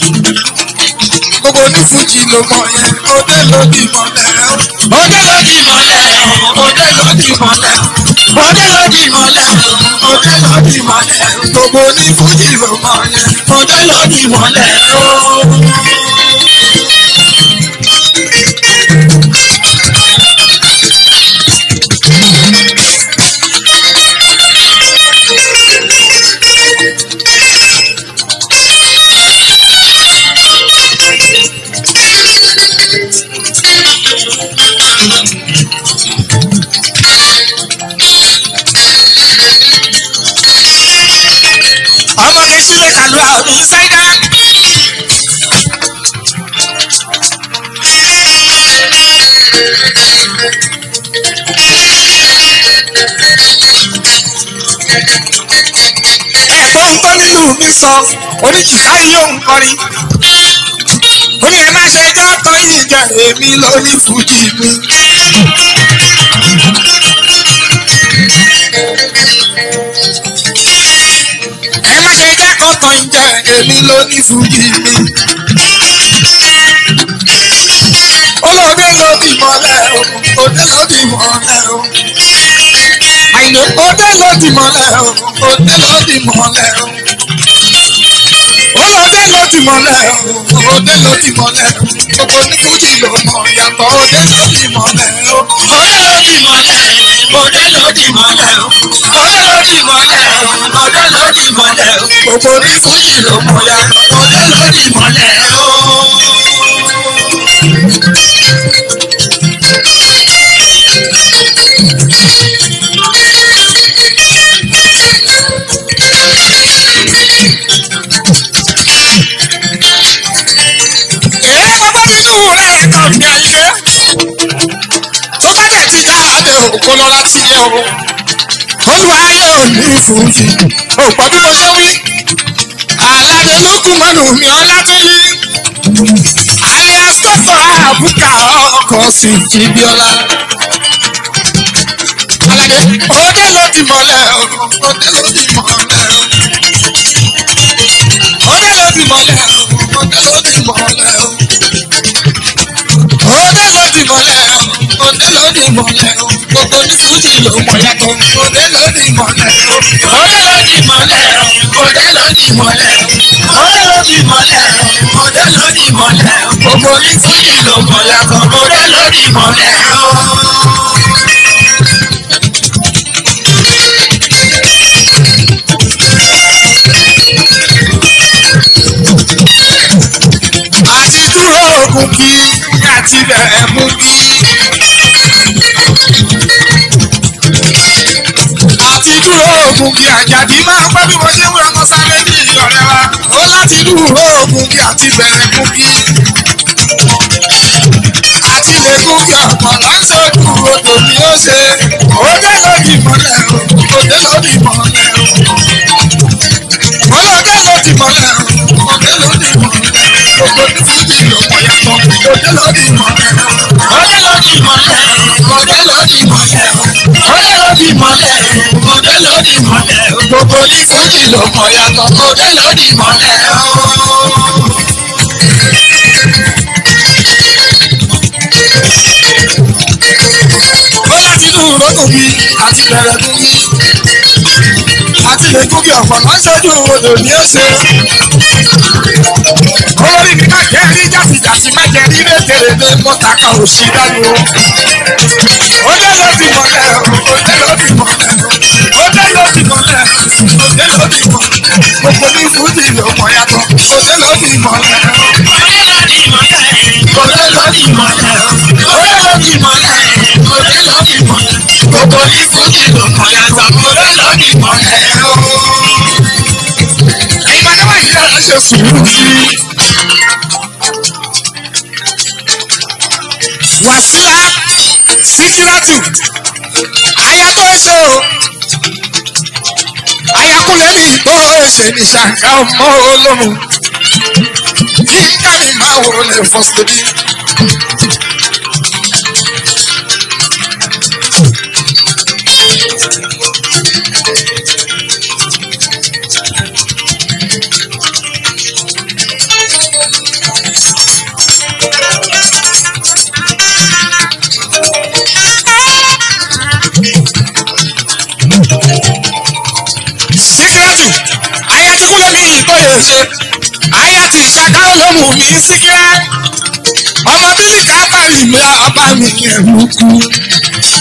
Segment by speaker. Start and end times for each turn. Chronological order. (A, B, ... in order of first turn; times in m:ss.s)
0:01.4-0:07.0 A
0:06.6-0:07.9 B
0:08.0-0:15.8 A
0:08.9-0:11.1 B
0:13.7-0:15.6 B
0:42.2-0:44.3 A
0:56.5-0:59.8 A
1:01.4-1:05.0 A
1:11.8-1:15.1 A
1:18.4-1:21.9 A
1:23.3-1:27.0 A
1:28.7-1:35.7 A
1:35.6-1:42.2 B
1:42.1-1:44.1 A
1:44.0-1:46.5 B
2:01.3-2:03.8 A
2:05.4-2:08.0 A
2:08.8-2:12.0 A
2:13.0-2:15.4 A
2:16.6-2:20.4 A
2:22.4-2:26.4 A
2:28.4-2:31.5 A
2:33.1-2:40.0 A
2:39.7-2:51.2 B
3:00.8-3:04.6 A
3:08.7-3:16.2 A
3:18.4-3:25.6 A
3:27.0-3:33.9 A
3:33.7-3:44.6 B
3:37.2-3:37.6 A
3:40.6-3:41.2 A
3:51.0-3:53.8 A
3:55.1-3:58.1 A
3:59.9-4:04.6 A
4:05.7-4:15.4 A
4:15.3-4:26.2 B
4:18.9-4:19.2 A
4:27.3-4:29.6 A
4:33.8-4:36.1 A
4:37.1-4:38.3 A
4:40.3-4:43.6 A
4:45.0-4:47.1 A
5:10.3-5:13.3 A
5:13.9-5:16.3 A
5:17.2-5:20.4 A